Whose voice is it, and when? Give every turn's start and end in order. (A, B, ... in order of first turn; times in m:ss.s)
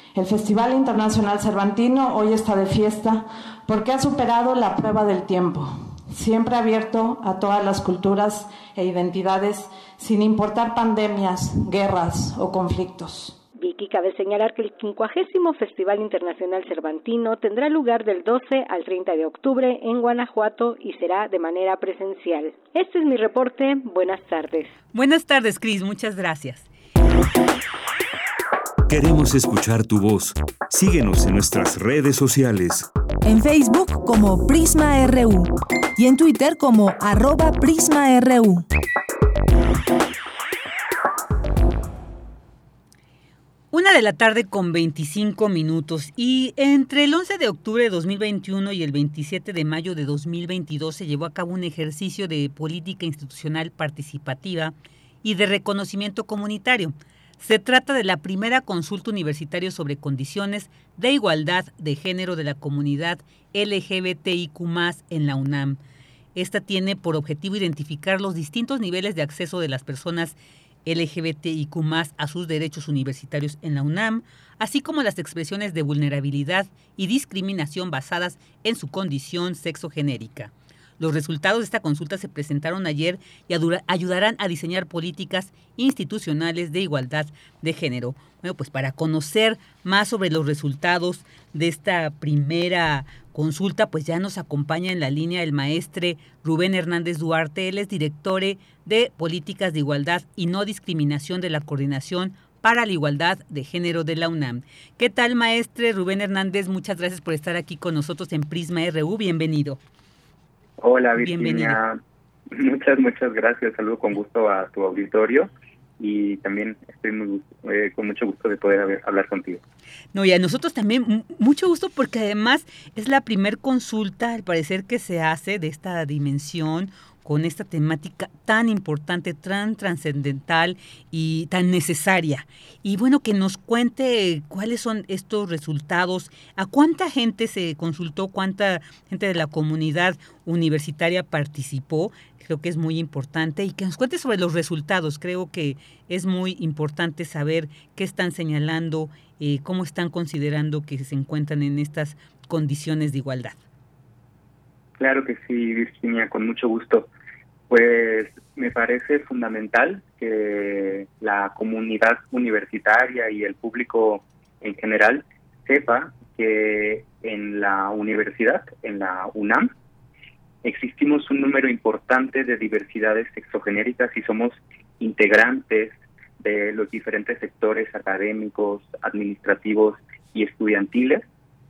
0:00.1-0:13.4 A
0:13.6-0:24.7 B
0:24.9-0:26.7 C
0:28.9-0:32.9 D
0:33.2-0:38.6 E
0:43.7-1:05.8 C
1:06.4-1:49.8 C
1:50.8-1:52.0 F
1:51.2-1:51.8 C
1:52.5-1:59.6 F
2:00.1-2:33.6 C
2:35.0-2:37.1 F
2:37.7-2:49.7 F
2:50.6-3:01.2 F